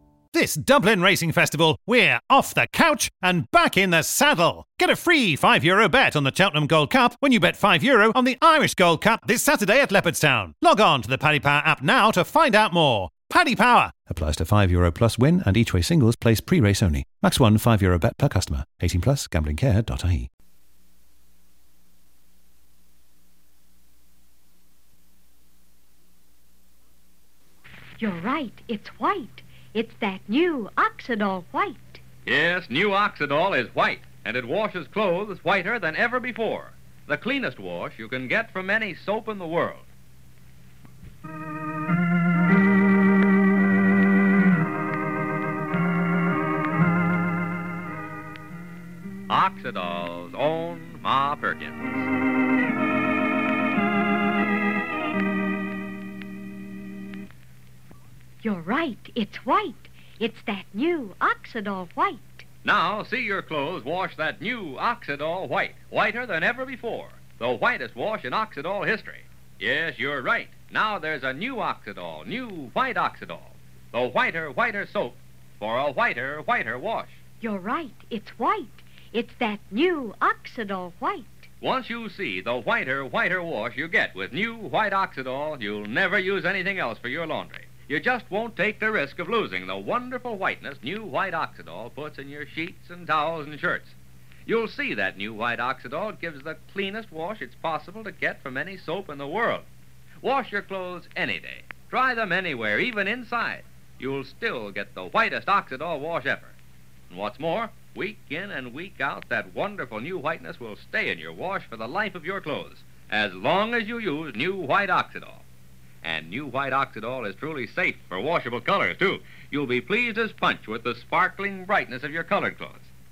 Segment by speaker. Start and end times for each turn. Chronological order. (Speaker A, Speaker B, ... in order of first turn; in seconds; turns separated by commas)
Speaker A: 0.3-20.3, Speaker B: 28.0-32.0, Speaker C: 32.2-39.9, Speaker C: 49.3-52.1, Speaker B: 58.4-62.5, Speaker C: 62.6-77.2, Speaker B: 77.4-81.5, Speaker C: 81.6-94.0, Speaker C: 94.5-99.7, Speaker C: 100.2-106.5, Speaker C: 107.1-115.5, Speaker C: 116.0-122.9